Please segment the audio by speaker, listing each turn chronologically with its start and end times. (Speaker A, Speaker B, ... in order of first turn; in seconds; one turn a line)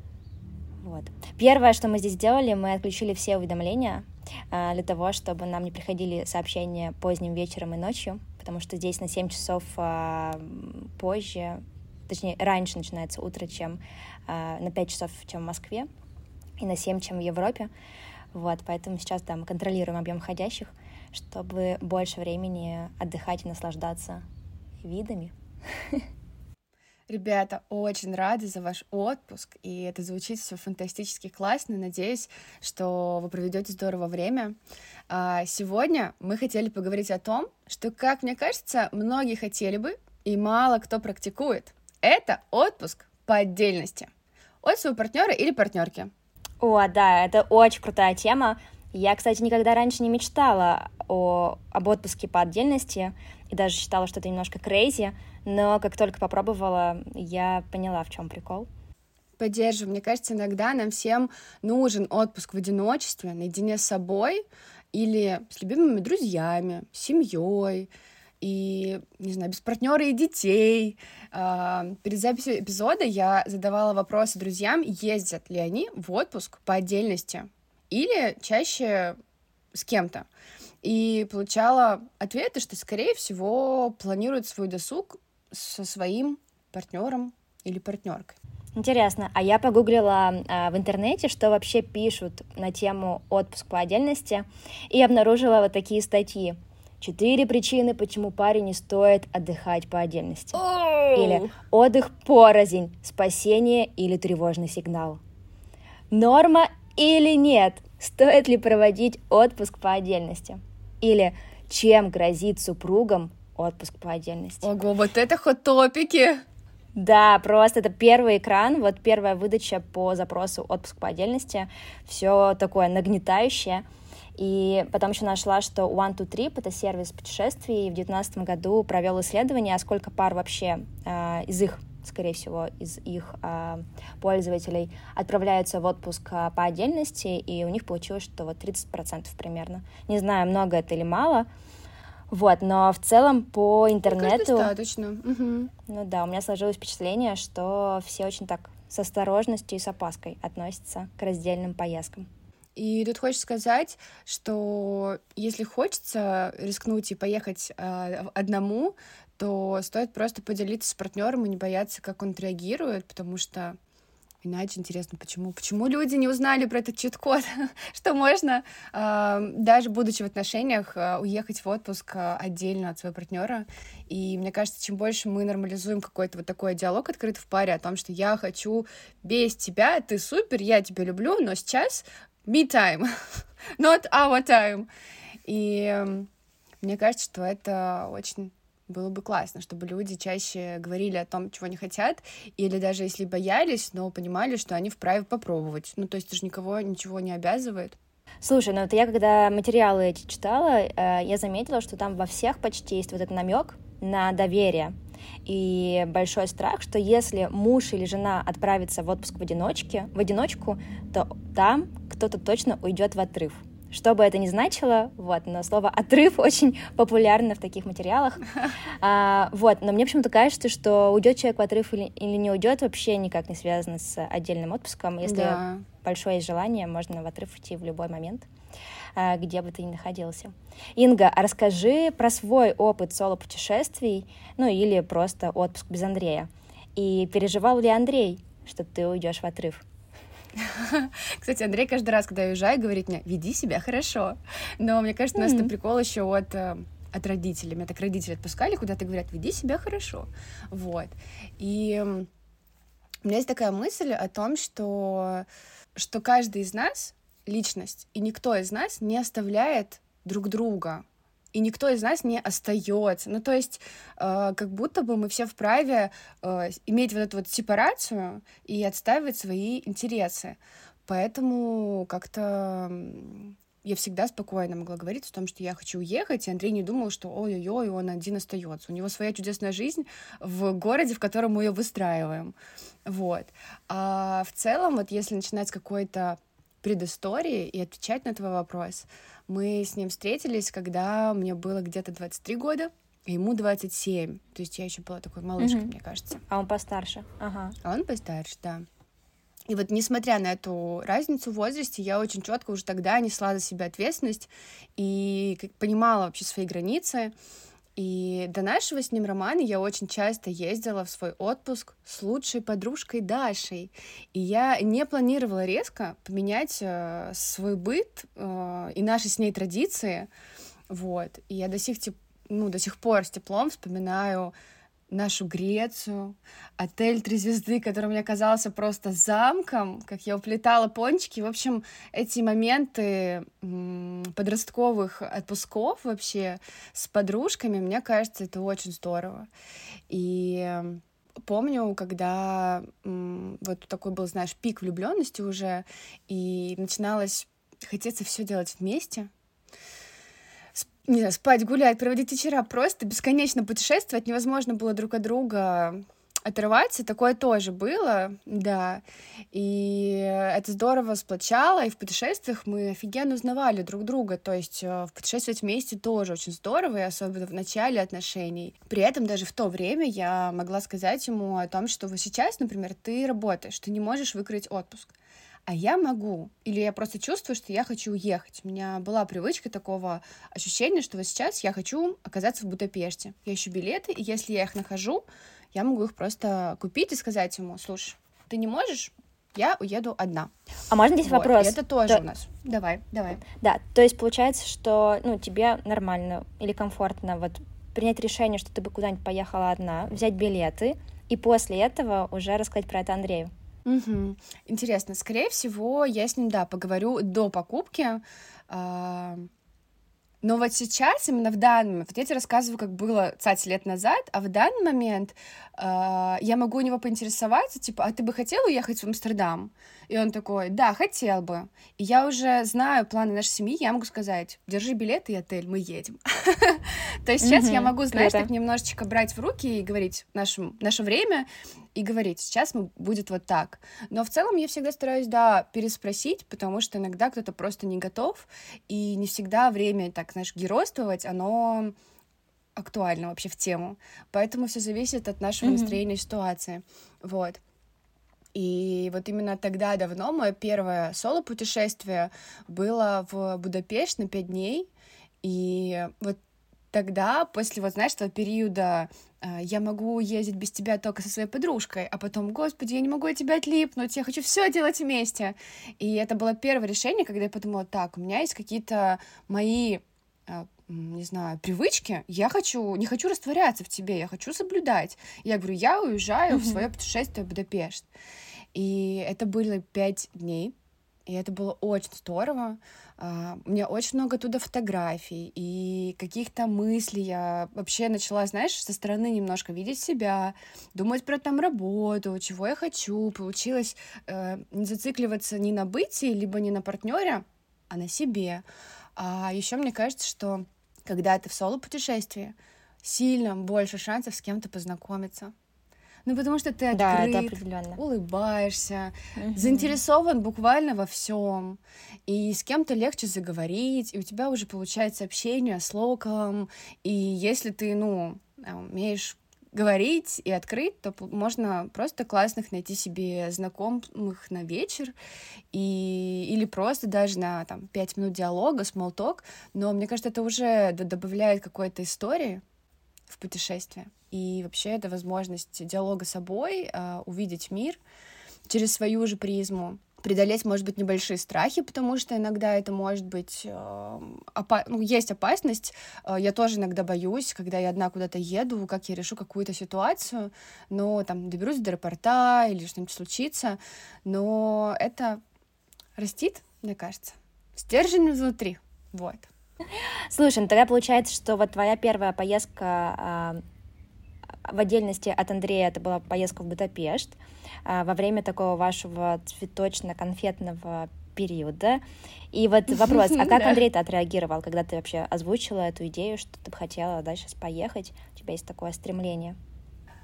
Speaker A: 0.8-15.9
Speaker A: 16.6-17.7
Speaker A: 18.3-24.2
Speaker A: 24.8-26.0
Speaker B: 27.1-34.6
Speaker B: 35.1-44.1
Speaker B: 44.6-46.1
Speaker A: 46.6-58.7
Speaker B: 59.4-79.2
Speaker B: 79.7-80.3
Speaker B: 80.8-88.3
Speaker A: 88.8-100.6
Speaker B: 100.5-101.5
Speaker A: 101.1-105.2
Speaker A: 106.1-114.7
Speaker B: 114.6-116.4
Speaker A: 116.9-123.8
Speaker A: 124.4-141.5
Speaker A: 142.3-144.7
Speaker B: 144.1-145.7
Speaker A: 145.8-152.3
Speaker B: 152.8-163.8
Speaker B: 164.4-184.9
Speaker B: 185.4-186.3
Speaker B: 186.8-198.0
Speaker A: 198.4-204.9
Speaker A: 205.4-228.4
Speaker B: 225.2-225.8
Speaker A: 229.2-239.8
Speaker B: 240.6-252.3
Speaker A: 245.3-245.7
Speaker B: 253.2-296.4
Speaker A: 295.6-295.9
Speaker A: 296.5-297.8
Speaker B: 297.8-298.9
Speaker B: 299.7-307.3
Speaker B: 307.9-320.3
Speaker B: 320.9-324.5
Speaker B: 325.1-339.5
Speaker B: 340.1-349.3
Speaker B: 350.7-375.1
Speaker B: 375.7-390.5
Speaker A: 390.9-392.2
Speaker B: 391.2-393.4
Speaker A: 393.6-403.5
Speaker B: 403.9-409.5
Speaker B: 410.4-441.9
Speaker A: 427.4-428.5
Speaker B: 442.8-447.6
Speaker A: 445.6-446.0
Speaker B: 448.5-454.9
Speaker B: 455.4-456.4
Speaker B: 456.9-478.1
Speaker A: 476.5-476.8
Speaker B: 478.7-480.7
Speaker B: 481.2-498.6
Speaker B: 499.1-505.5
Speaker B: 506.2-525.1
Speaker A: 506.9-508.0
Speaker A: 509.4-510.0
Speaker B: 525.7-532.6
Speaker B: 533.3-538.0
Speaker B: 538.7-555.4
Speaker B: 556.1-559.5
Speaker A: 560.3-563.6
Speaker A: 564.6-572.0
Speaker A: 572.5-579.5
Speaker B: 572.9-573.8